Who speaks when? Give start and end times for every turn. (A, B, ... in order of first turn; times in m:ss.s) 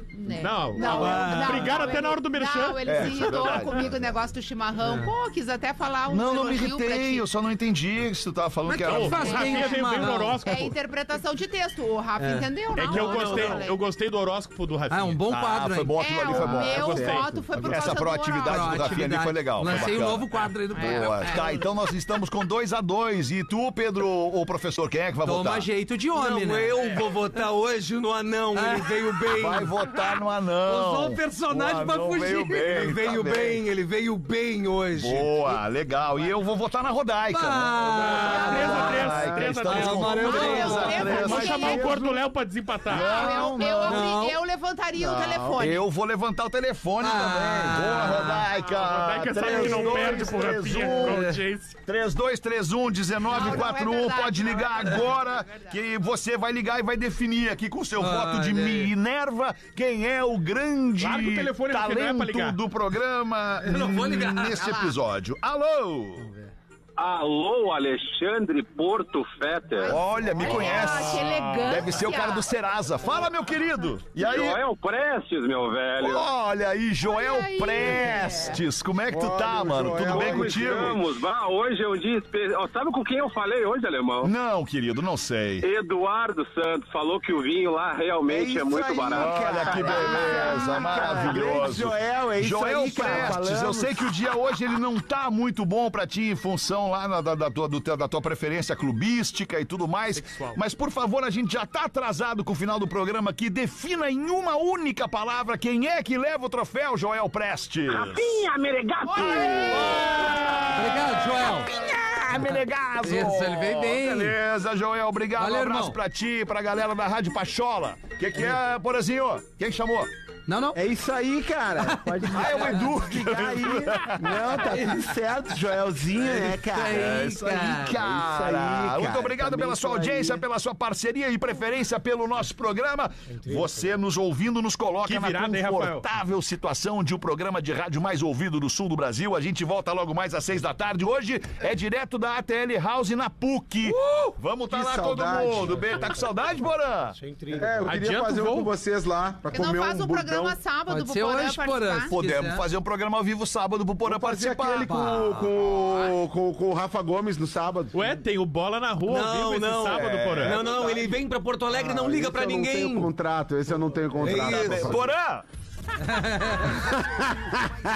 0:00.1-0:07.2 A
0:00.4-0:03.8 B
0:00.8-0:01.8 C
0:02.8-0:04.1 D
0:06.1-0:09.8 D
0:08.6-0:10.4 C
0:08.8-0:10.8 B
0:10.4-0:13.8 A
0:12.2-0:13.6 C
0:12.7-0:15.2 B
0:14.9-0:16.0 C
0:15.3-0:25.7 D
0:16.0-0:19.1 A
0:16.5-0:17.3 B
0:16.8-0:17.7 E
0:18.4-0:21.5 C
0:20.8-0:21.6 A
0:25.2-0:26.8 C
0:26.1-0:29.7 F
0:28.5-0:28.9 C
0:29.3-0:33.6 D
0:30.6-0:35.5 F
0:34.9-0:41.9 D
0:37.3-0:39.1 C
0:38.1-0:38.9 F
0:38.1-0:43.2 B
0:38.2-0:38.9 A
0:39.6-0:41.4 F
0:40.1-0:42.0 A
0:41.4-0:41.9 E
0:42.9-0:44.1 D
0:42.9-0:45.9 A
0:43.1-0:44.4 C
0:45.0-0:45.4 E
0:45.1-1:06.3 D
0:47.0-0:48.4 C
0:48.6-0:51.8 B
0:49.5-0:50.2 E
0:53.2-0:55.7 A
0:58.0-0:58.9 C
1:01.0-1:02.6 B
1:03.6-1:04.6 C
1:04.5-1:05.0 A
1:06.2-1:06.5 C
1:07.0-1:10.0 G
1:09.7-1:12.5 A
1:09.8-1:14.6 D
1:11.2-1:11.8 B
1:14.1-1:16.3 G
1:16.0-1:21.0 D
1:17.0-1:18.6 A
1:19.1-1:21.0 E
1:20.1-1:24.3 G
1:24.2-1:25.6 D
1:25.6-1:30.2 G
1:28.3-1:34.1 E
1:29.1-1:48.4 D
1:29.9-1:31.2 A
1:40.1-1:40.6 B
1:47.9-1:50.6 G
1:49.1-1:49.7 A
1:49.2-2:00.1 D
1:49.8-1:51.7 C
1:53.0-1:54.4 C
1:55.4-1:56.0 C
2:00.5-2:00.8 C
2:00.7-2:07.2 E
2:01.8-2:02.4 C
2:02.2-2:04.7 D
2:04.7-2:05.0 C
2:06.3-2:08.0 C
2:06.9-2:27.2 D
2:07.8-2:10.4 E
2:13.3-2:13.7 F
2:15.0-2:16.1 B
2:24.7-2:26.0 E
2:27.2-2:27.9 F
2:27.5-2:30.6 E
2:27.8-2:28.7 B
2:29.5-2:32.1 A
2:30.9-2:32.6 C
2:32.1-2:35.4 D
2:34.0-2:38.0 E
2:34.8-2:35.4 C
2:35.7-2:36.1 A
2:37.9-2:40.8 B
2:39.0-2:43.1 F
2:40.0-2:41.1 E
2:41.7-2:45.1 E
2:44.2-2:45.0 F
2:44.4-2:45.4 D
2:46.0-2:46.8 C
2:46.7-2:47.8 E